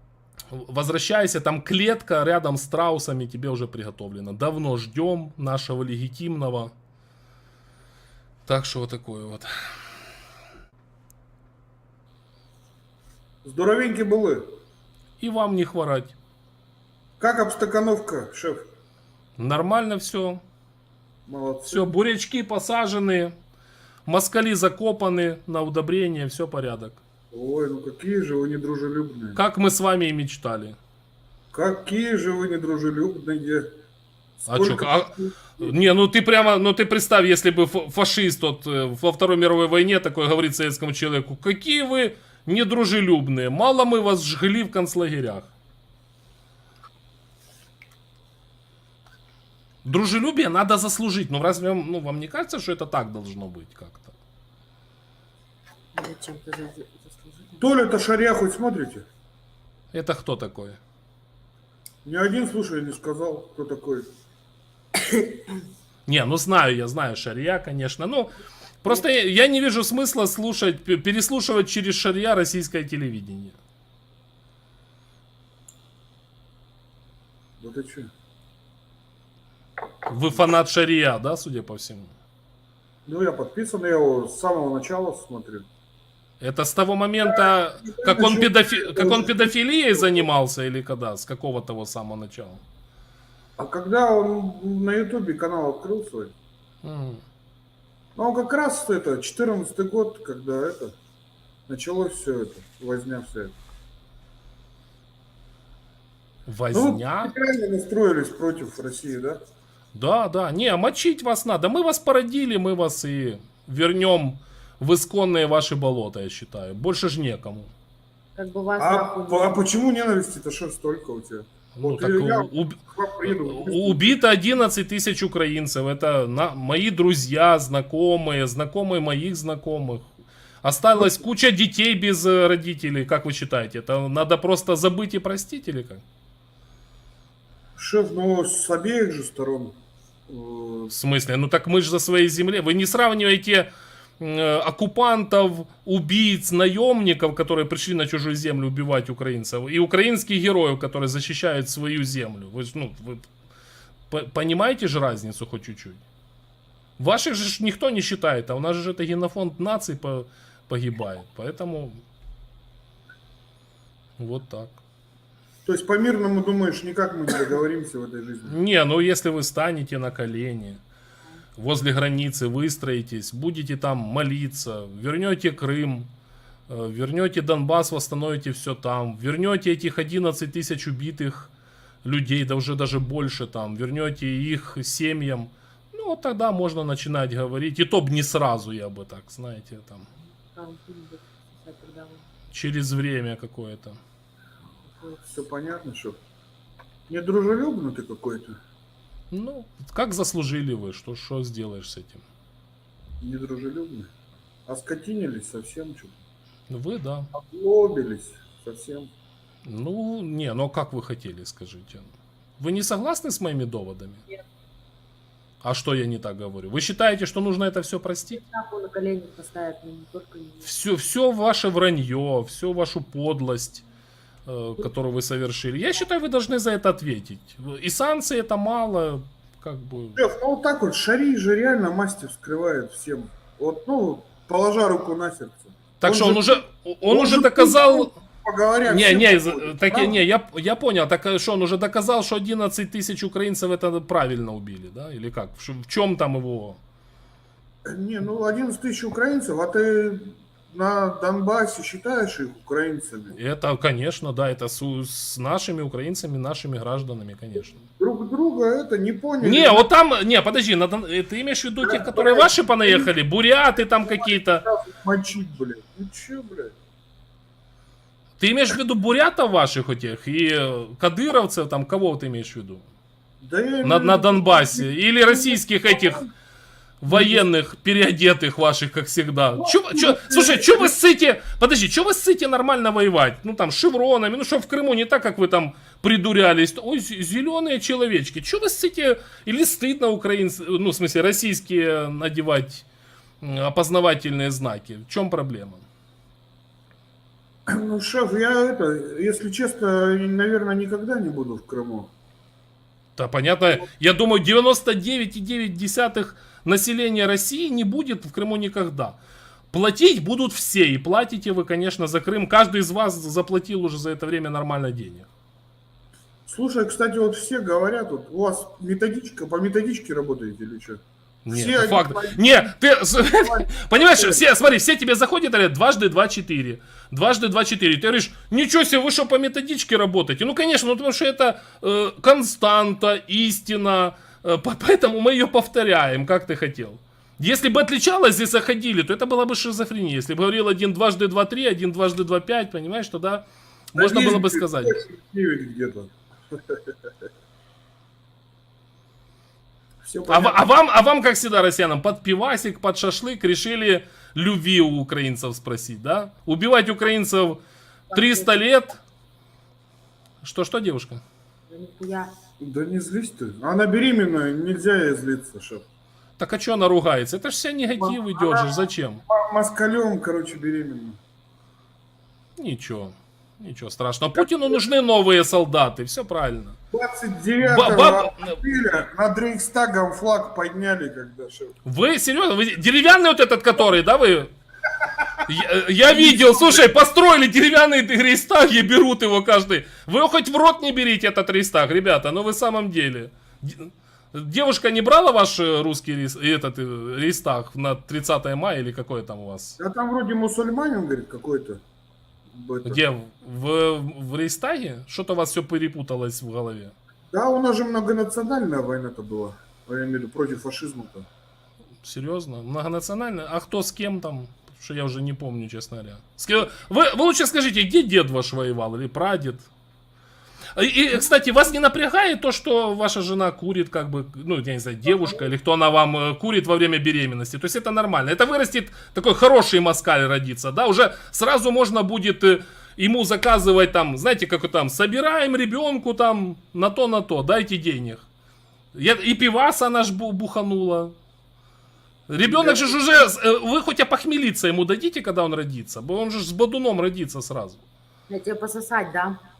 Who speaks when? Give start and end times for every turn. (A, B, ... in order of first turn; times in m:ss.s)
0:00.5-0:06.7 A
0:08.5-0:09.5 A
0:13.4-0:14.5 B
0:15.2-0:16.2 A
0:17.2-0:18.7 B
0:19.4-0:20.4 A
0:21.2-0:21.9 B
0:21.7-0:23.3 A
0:24.1-0:27.0 A
0:27.3-0:29.4 B
0:29.3-0:30.8 A
0:31.5-0:33.7 B
0:34.4-0:35.5 B
0:34.5-0:45.5 A
0:49.8-0:54.1 A
0:55.9-0:57.6 C
0:57.6-0:59.1 B
0:59.9-1:00.8 A
1:02.0-1:04.1 B
1:06.1-1:13.6 A
1:17.6-1:18.1 B
1:20.1-1:22.1 A
1:23.1-1:25.7 B
1:26.4-1:32.6 A
1:27.2-1:30.2 B
1:33.6-1:36.3 B
1:36.8-1:37.2 A
1:38.2-1:40.9 B
1:41.7-1:43.6 B
1:46.5-1:47.3 A
1:46.7-1:49.4 B
1:49.9-1:57.7 A
1:58.4-1:59.7 C
1:58.8-2:04.2 B
2:01.8-2:10.1 A
2:10.6-2:16.0 A
2:17.8-2:19.8 B
2:20.3-2:20.9 B
2:20.9-2:33.3 A
2:34.1-2:36.0 A
2:37.0-2:42.0 A
2:44.2-2:44.8 A
2:45.6-2:48.6 B
2:48.5-2:50.8 A
2:51.6-2:56.1 A
2:56.7-3:01.5 A
3:02.0-3:10.0 A
3:10.5-3:12.3 C
3:12.5-3:14.0 A
3:14.9-3:15.2 C
3:15.3-3:16.2 B
3:17.1-3:18.6 B
3:19.3-3:22.2 A
3:23.2-3:24.1 B
3:24.7-3:26.2 B
3:26.7-3:27.3 A
3:27.3-3:29.1 B
3:29.6-3:32.1 A
3:32.6-3:34.2 A
3:35.6-3:38.4 A
3:38.4-3:40.7 C
3:40.6-3:43.8 A
3:44.5-3:50.2 A
3:50.2-4:00.2 B
3:56.0-3:58.1 A
3:58.8-4:06.8 A
4:07.8-4:13.4 B
4:13.3-4:17.8 A
4:18.0-4:19.9 B
4:19.4-4:24.6 A
4:21.8-4:23.1 B
4:24.0-4:26.8 B
4:28.4-4:32.8 A
4:33.4-4:36.3 B
4:33.8-4:36.2 A
4:37.0-4:52.8 A
4:37.1-4:37.4 B
4:39.6-4:40.9 B
4:53.4-4:55.8 A
4:57.7-5:02.1 B
5:03.2-5:09.2 A
5:09.7-5:15.3 A
5:16.5-5:22.7 B
5:21.5-5:45.0 A
5:23.3-5:24.4 B
5:44.0-5:46.8 B
5:50.0-5:50.6 B
5:50.3-5:57.6 A
5:58.1-5:59.0 A
5:58.1-5:58.5 C
6:00.4-6:01.2 A
6:01.7-6:02.3 C
6:02.6-6:05.8 B
6:06.4-6:09.2 A
6:08.0-6:11.2 B
6:12.6-6:16.8 A
6:14.4-6:14.8 B
6:16.9-6:21.8 B
6:17.6-6:18.6 A
6:21.8-6:24.5 A
6:25.4-6:39.8 A
6:26.1-6:26.8 B
6:39.8-6:41.8 B
6:42.5-6:43.0 B
6:42.8-6:46.9 A
6:47.3-6:51.3 B
6:52.0-6:59.7 A
7:00.8-7:18.2 A
7:18.9-7:21.1 A
7:22.3-7:27.8 A
7:22.4-7:22.9 B
7:28.3-7:29.4 C